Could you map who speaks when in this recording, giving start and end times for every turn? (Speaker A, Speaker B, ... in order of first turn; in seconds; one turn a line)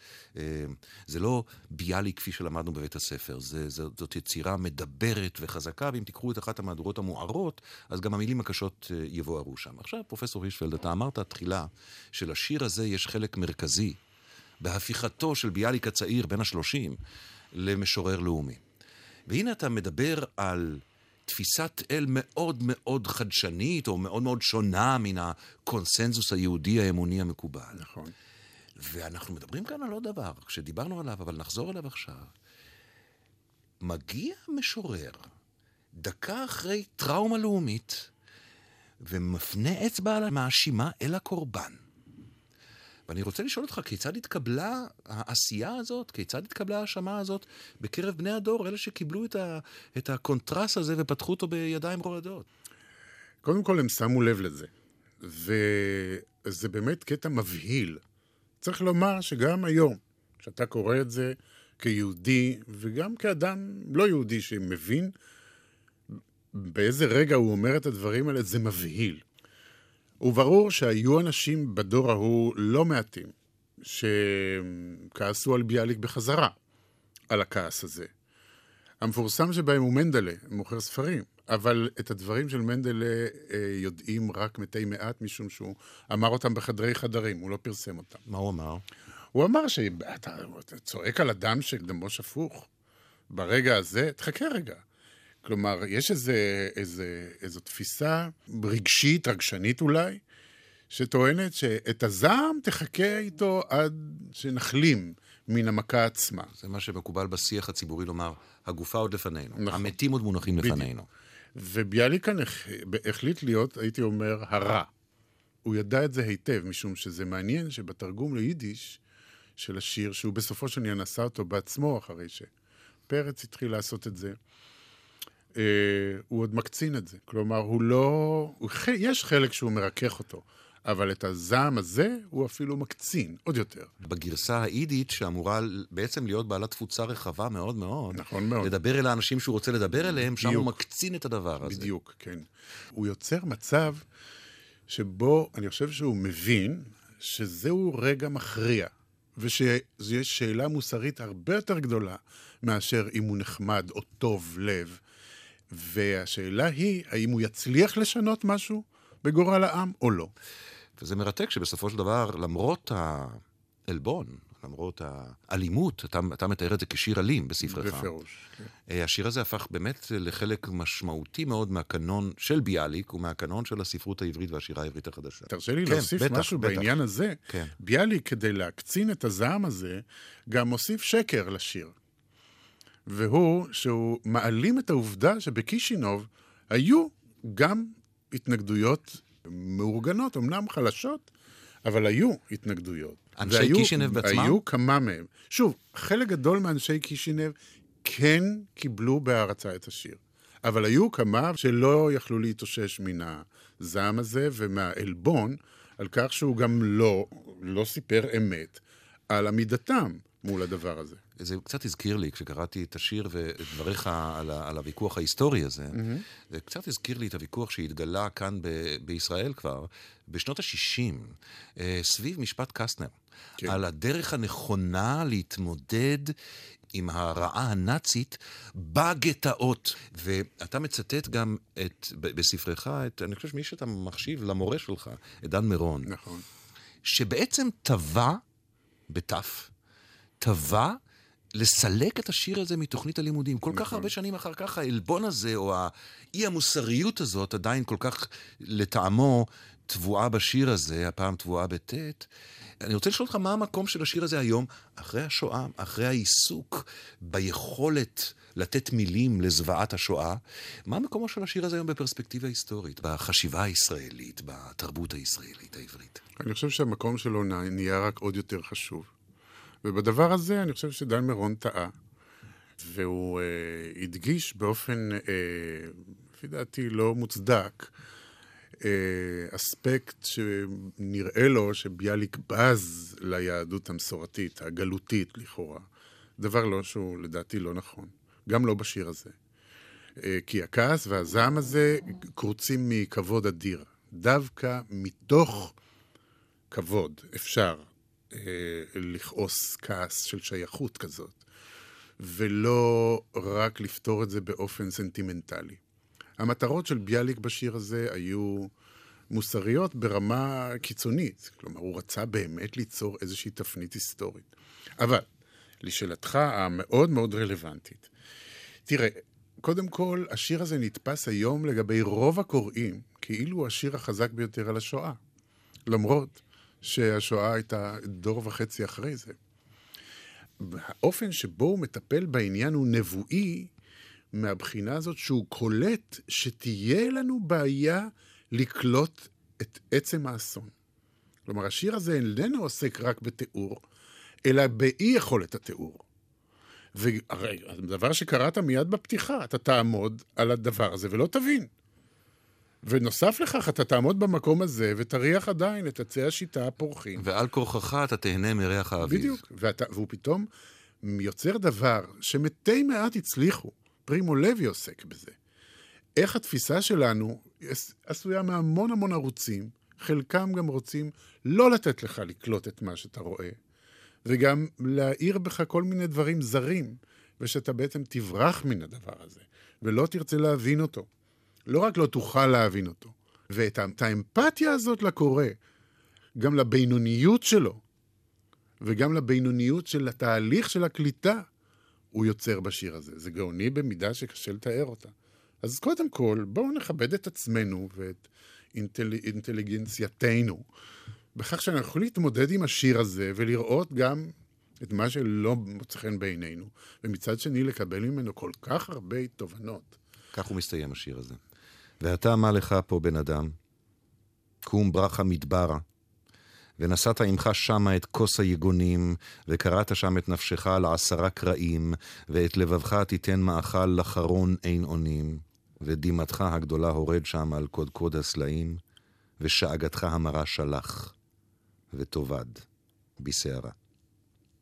Speaker A: 0.3-14.0
Speaker A: 14.6-17.0
Speaker A: 17.5-18.6
Speaker A: 19.3-27.8
Speaker B: 27.7-28.1
Speaker A: 28.8-32.3
Speaker A: 33.8-35.3
Speaker A: 35.9-38.1
Speaker A: 39.0-41.8
Speaker A: 43.1-52.5
Speaker B: 53.4-58.0
Speaker B: 58.6-65.1
Speaker B: 66.5-69.2
Speaker B: 70.2-76.5
Speaker B: 77.3-78.1
Speaker B: 79.0-88.2
Speaker A: 88.3-88.8
Speaker B: 89.3-92.7
Speaker B: 93.3-94.8
Speaker B: 95.4-100.2
Speaker B: 100.9-106.5
Speaker A: 106.6-111.1
Speaker B: 109.6-109.9
Speaker B: 110.6-110.9
Speaker B: 111.5-114.9
Speaker B: 115.7-119.0
Speaker B: 119.6-122.5
Speaker B: 123.1-124.4
Speaker B: 125.6-133.9
Speaker A: 134.0-141.9
Speaker B: 138.1-138.7
Speaker B: 140.3-140.8
Speaker B: 141.6-144.1
Speaker B: 144.9-155.0
Speaker B: 155.7-160.3
Speaker A: 161.0-168.1
Speaker B: 167.7-168.7
Speaker A: 168.9-177.0
Speaker B: 175.5-181.9
Speaker A: 177.5-177.7
Speaker B: 183.1-191.3
Speaker B: 191.8-211.2
Speaker A: 193.4-194.6
Speaker A: 211.4-226.3
Speaker B: 215.9-216.2
Speaker A: 226.9-236.1
Speaker B: 236.1-236.4
Speaker A: 237.0-238.4
Speaker A: 239.1-239.7
Speaker A: 240.4-241.0
Speaker A: 241.5-252.3
Speaker B: 243.7-244.1
Speaker A: 252.8-266.2
Speaker B: 266.4-269.1
Speaker B: 269.8-271.9
Speaker B: 272.8-277.9
Speaker B: 278.8-285.9
Speaker B: 286.4-289.3
Speaker B: 290.2-295.8
Speaker B: 296.7-301.4
Speaker B: 302.2-305.8
Speaker B: 306.4-308.7
Speaker B: 309.3-314.5
Speaker B: 315.0-315.3
Speaker B: 315.8-318.1
Speaker B: 318.9-325.2
Speaker B: 325.9-329.4
Speaker B: 330.6-333.7
Speaker B: 334.3-340.7
Speaker B: 341.5-343.8
Speaker B: 344.4-346.0
Speaker B: 346.9-351.7
Speaker B: 352.8-357.3
Speaker A: 357.2-359.4
Speaker B: 359.0-360.5
Speaker B: 361.0-365.4
Speaker B: 366.2-373.6
Speaker B: 374.2-381.1
Speaker B: 381.7-385.6
Speaker B: 386.4-387.8
Speaker B: 388.8-391.5
Speaker B: 392.1-400.7
Speaker B: 401.4-410.0
Speaker A: 410.3-411.4
Speaker A: 412.0-413.6
Speaker A: 414.6-415.8
Speaker A: 416.8-428.8
Speaker A: 429.4-431.1
Speaker A: 431.9-432.6
Speaker A: 433.2-433.7